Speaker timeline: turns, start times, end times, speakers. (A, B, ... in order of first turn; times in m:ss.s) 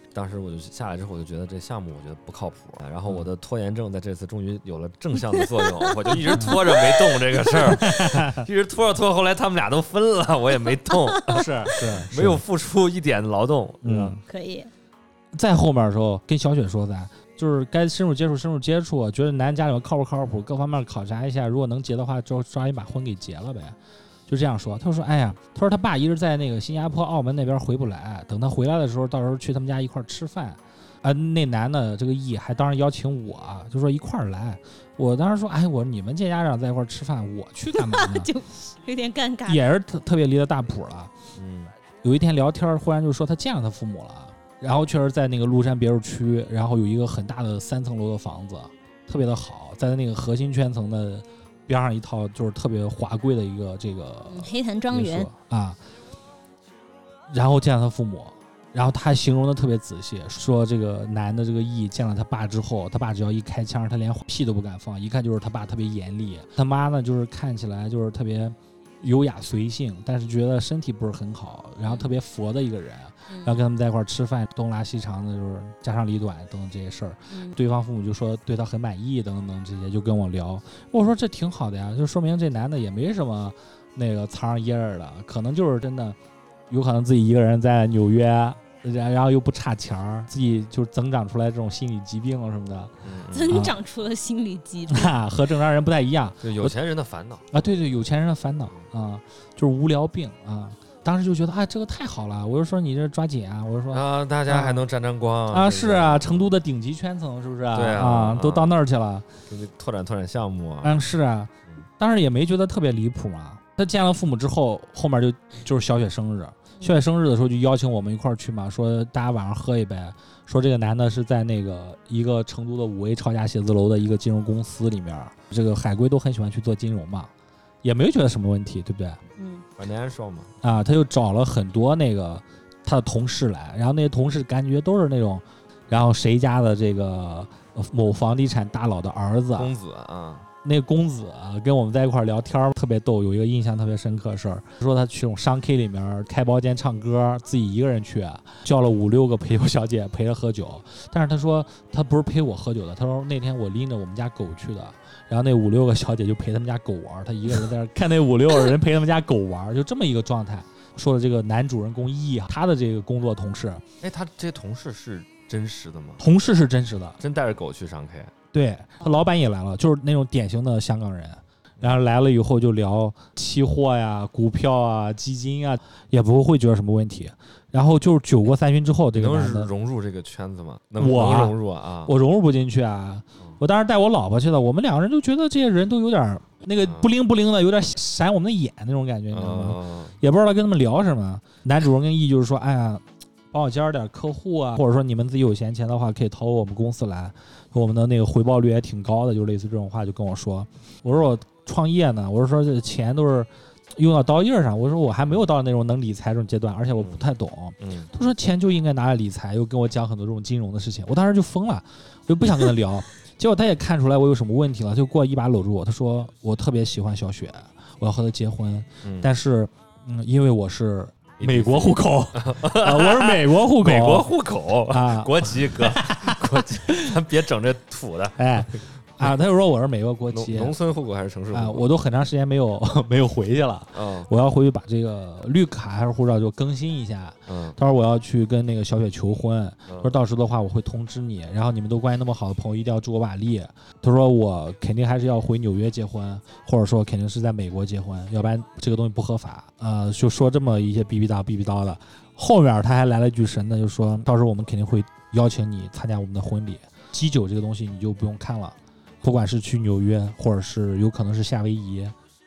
0:00.1-0:14.2 A
0:05.3-0:07.6 B
0:06.3-0:06.6 C
0:07.6-0:08.5 C
0:10.9-0:11.8 B
0:11.3-0:12.4 C
0:13.8-0:14.2 C
0:14.3-0:14.7 B
0:15.4-0:23.8 C
0:24.3-0:38.3 C
0:37.7-0:39.6 B
0:39.4-0:41.1 C
0:41.4-0:41.7 A
0:42.0-0:55.8 C
0:54.3-0:55.3 B
0:57.3-1:26.2 C
1:13.3-1:13.6 B
1:17.3-1:17.6 B
1:26.7-1:32.9 C
1:33.0-1:33.7 A
1:33.3-1:35.1 B
1:33.5-1:33.8 C
1:34.9-1:36.7 C
1:36.4-1:37.5 A
1:37.5-1:44.8 C
1:43.9-1:46.5 A
1:45.5-1:49.3 C
1:47.7-1:48.8 A
1:49.5-1:51.0 A
1:50.8-2:07.3 C
2:07.8-2:09.2 C
2:09.4-2:09.6 B
2:09.8-2:10.6 A
2:10.6-2:19.7 C
2:19.6-2:20.5 A
2:20.6-2:43.8 C
2:44.0-2:46.2 A
2:46.2-2:47.2 C
2:47.2-2:48.3 A
2:48.5-2:59.7 C
2:59.1-3:02.1 A
3:01.0-3:44.3 C
3:09.3-3:10.1 A
3:27.0-3:27.2 A
3:27.8-3:28.1 A
3:39.0-3:39.3 A
3:41.4-3:48.6 A
3:44.9-3:47.2 C
3:48.4-3:50.7 C
3:50.3-3:51.9 A
3:51.5-4:22.1 C
3:53.9-3:54.3 A
3:57.5-3:57.8 A
3:59.9-4:00.1 A